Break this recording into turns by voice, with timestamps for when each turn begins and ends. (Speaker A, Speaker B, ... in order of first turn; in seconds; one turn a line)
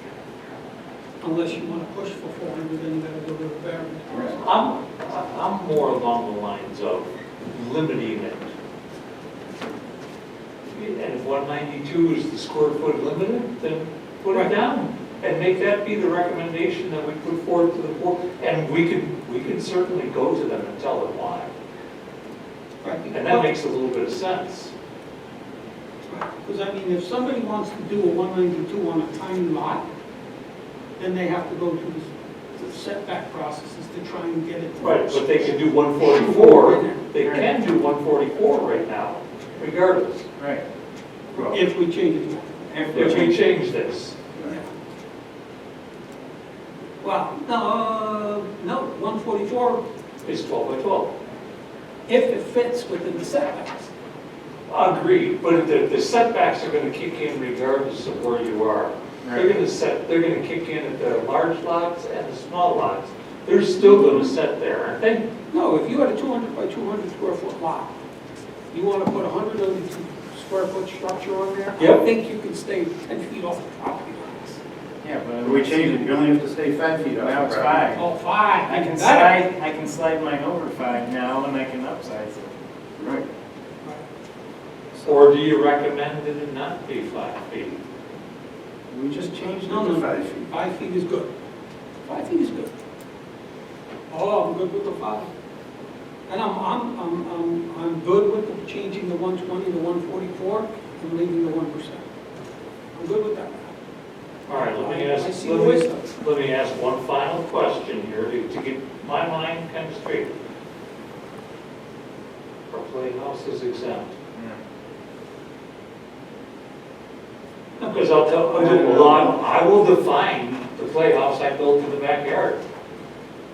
Speaker A: 1.2-4.6
Speaker B: 4.1-4.4
Speaker C: 4.4-8.5
Speaker C: 10.7-21.5
Speaker A: 22.8-23.5
Speaker C: 23.1-24.7
Speaker A: 26.1-29.8
Speaker A: 31.0-37.0
Speaker C: 34.8-40.2
Speaker D: 40.4-40.6
Speaker A: 41.4-43.4
Speaker C: 42.9-44.2
Speaker B: 43.0-43.2
Speaker A: 47.0-49.8
Speaker C: 50.2-51.1
Speaker A: 52.1-53.9
Speaker C: 54.7-65.2
Speaker D: 59.2-59.6
Speaker A: 63.8-64.3
Speaker A: 65.5-67.9
Speaker A: 68.7-74.6
Speaker C: 71.8-72.0
Speaker D: 75.0-76.2
Speaker B: 75.4-77.8
Speaker D: 77.2-78.1
Speaker A: 77.9-79.4
Speaker D: 78.6-82.5
Speaker B: 83.0-83.3
Speaker C: 85.0-87.8
Speaker B: 88.9-90.5
Speaker A: 89.6-91.3
Speaker A: 92.0-92.7
Speaker A: 94.1-95.3
Speaker A: 96.3-102.0
Speaker A: 102.9-103.7
Speaker C: 104.5-110.3
Speaker A: 104.5-106.0
Speaker C: 112.7-114.1
Speaker D: 114.3-114.6
Speaker C: 117.8-122.6
Speaker D: 118.6-119.2
Speaker A: 118.6-119.1